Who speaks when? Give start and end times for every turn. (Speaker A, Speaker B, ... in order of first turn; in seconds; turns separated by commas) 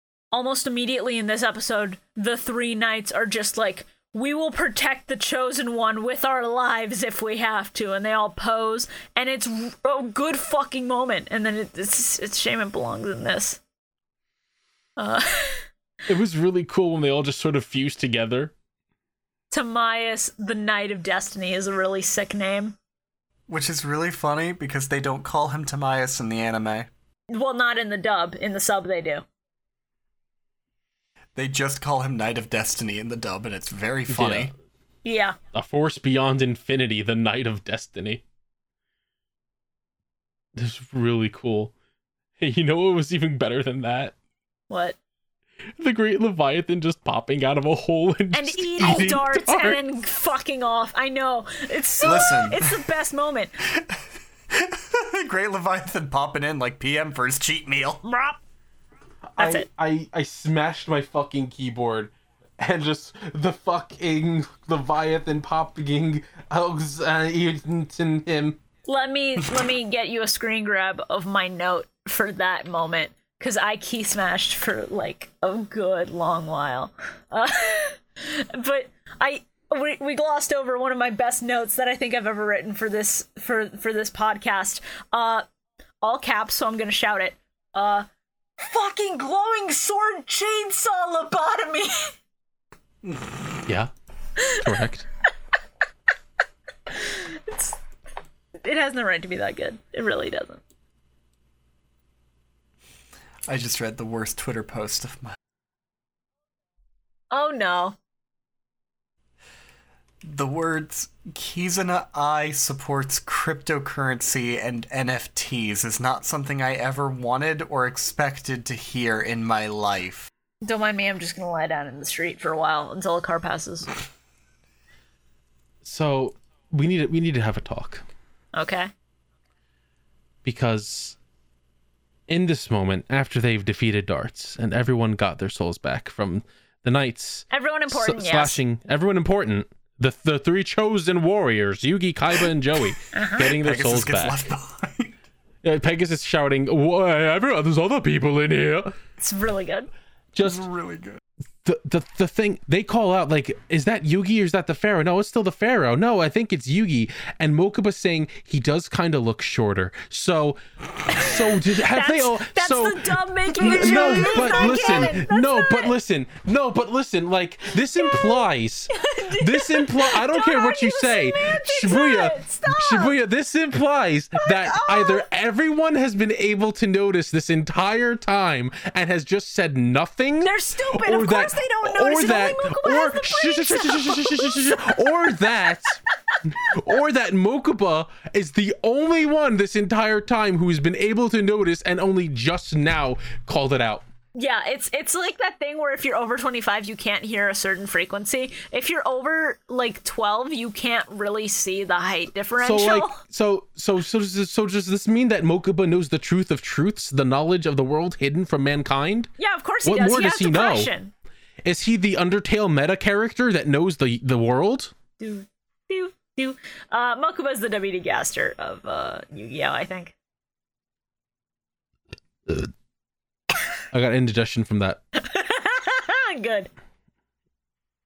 Speaker A: 0.3-13.6, Speaker A: 15.0-15.7, Speaker B: 16.1-18.5, Speaker A: 19.5-22.8, Speaker C: 23.5-26.9, Speaker A: 27.3-29.2, Speaker C: 31.3-34.5, Speaker B: 34.1-34.5, Speaker A: 35.0-35.4, Speaker B: 35.5-38.2, Speaker B: 40.5-41.7, Speaker B: 42.4-44.1, Speaker A: 44.7-45.0, Speaker B: 45.8-49.8, Speaker A: 48.3-53.5, Speaker C: 52.0-52.8, Speaker C: 53.7-58.0, Speaker A: 58.0-58.4, Speaker B: 59.3-68.6, Speaker A: 59.4-59.7, Speaker A: 68.9-85.4, Speaker A: 86.0-88.1, Speaker A: 88.6-92.1, Speaker B: 93.7-93.9, Speaker A: 94.4-94.6, Speaker B: 94.5-95.0, Speaker A: 96.9-97.8, Speaker A: 98.6-100.6, Speaker C: 103.5-105.3, Speaker A: 107.3-108.0, Speaker C: 110.3-120.3, Speaker A: 120.6-123.9, Speaker B: 125.8-128.0, Speaker A: 128.5-128.9, Speaker B: 130.4-131.2, Speaker B: 132.3-144.4, Speaker A: 137.5-138.6, Speaker A: 143.1-143.5, Speaker C: 143.5-145.2, Speaker B: 145.6-148.9, Speaker A: 149.2-149.9, Speaker B: 150.3-150.7, Speaker C: 150.4-151.2, Speaker B: 151.6-160.6, Speaker A: 161.1-165.9, Speaker B: 161.2-194.0, Speaker C: 163.6-165.1, Speaker A: 168.0-173.1, Speaker A: 174.4-175.2, Speaker A: 180.4-185.5, Speaker A: 194.3-203.2, Speaker B: 202.6-209.3, Speaker A: 209.4-211.1, Speaker B: 209.8-210.9, Speaker B: 211.6-214.9, Speaker A: 215.2-220.1, Speaker B: 223.9-225.0, Speaker A: 225.1-226.7